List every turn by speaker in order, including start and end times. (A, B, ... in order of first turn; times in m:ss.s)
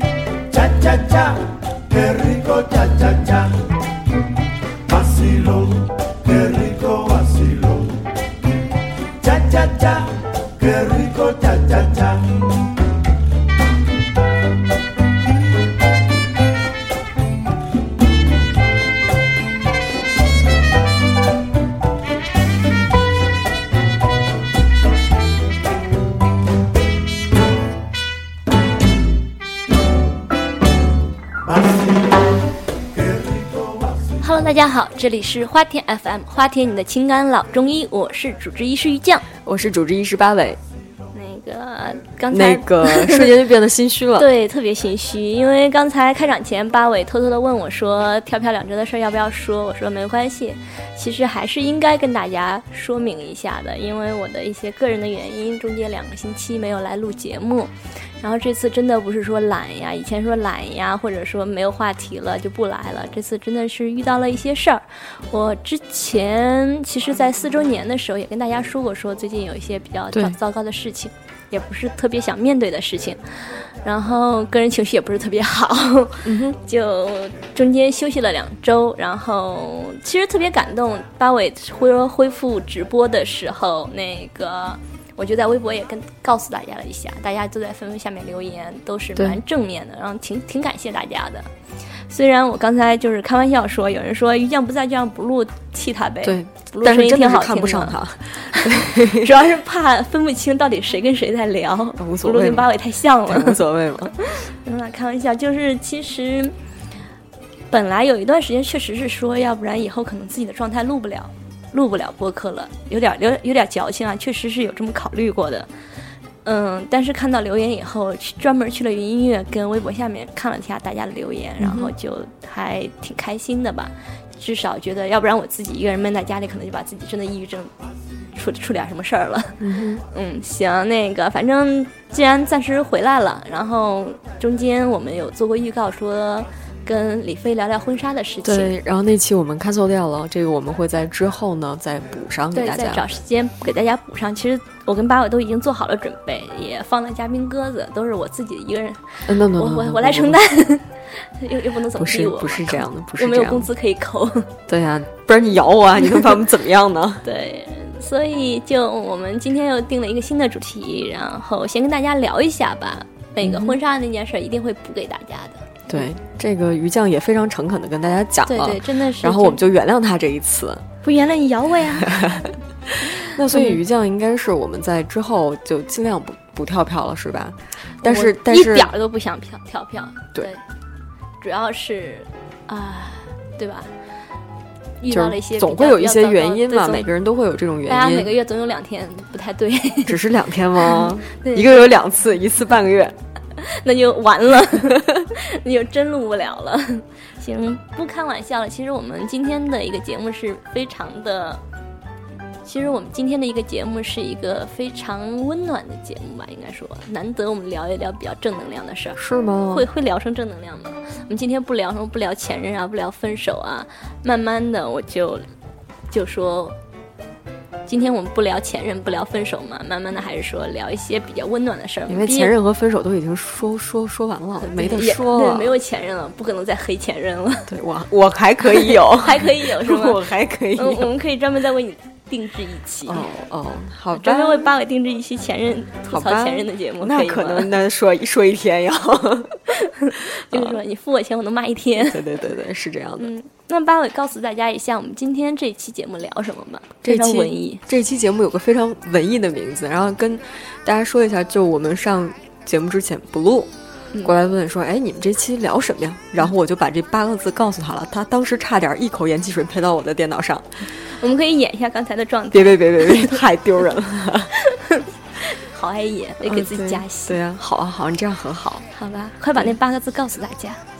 0:00.5-0:03.5 A
0:04.9-0:08.0 A
0:09.2-0:12.4 A
0:31.4-0:32.3 A
0:32.9-0:34.1 A
0:34.2-0:39.2 B
0:39.4-0:40.6 C
0:41.1-0:43.3 B
0:42.3-0:44.3 C
0:44.2-1:13.2 B
1:10.1-1:10.4 C
1:13.8-1:31.5 B
1:16.2-1:16.6 C
1:32.1-1:43.6 B
1:36.2-1:39.3 C
1:42.0-1:42.7 C
1:43.2-1:44.2 C
1:44.2-1:46.5 B
1:47.7-1:55.7 B
1:56.4-2:07.7 B
2:01.6-2:01.9 C
2:08.3-2:18.8 B
2:09.6-2:10.0 C
2:18.4-2:23.1 C
2:22.5-2:34.5 B
2:29.3-2:30.4 C
2:32.0-2:33.7 C
2:34.7-2:37.2 C
2:37.2-2:45.7 B
2:43.4-2:43.8 C
2:45.9-2:50.8 C
2:48.5-2:49.6 B
2:51.0-2:52.3 B
2:52.0-2:58.9 C
2:58.0-3:00.6 B
3:01.4-3:03.9 B
3:05.0-3:07.1 B
3:05.1-3:08.3 C
3:07.8-3:10.2 B
3:10.0-3:13.2 C
3:10.8-3:12.0 B
3:13.6-3:21.6 B
3:14.9-3:15.2 C
3:22.6-3:35.4 B
3:29.2-3:29.9 C
3:36.1-3:36.8 B
3:37.9-3:42.5 B
3:42.1-3:45.7 C
3:44.6-3:47.7 B
3:47.7-3:51.1 C
3:48.7-3:50.2 B
3:50.8-3:53.3 B
3:53.0-3:54.7 C
3:54.1-3:57.7 B
3:56.1-3:59.6 C
3:59.8-4:02.2 B
4:00.5-4:00.8 C
4:02.0-4:03.3 C
4:03.2-4:07.8 B
4:07.0-4:13.7 C
4:14.2-4:20.9 C
4:21.1-4:23.4 B
4:22.5-4:24.5 C
4:24.6-4:27.4 B
4:26.4-4:28.8 C
4:28.9-4:30.8 B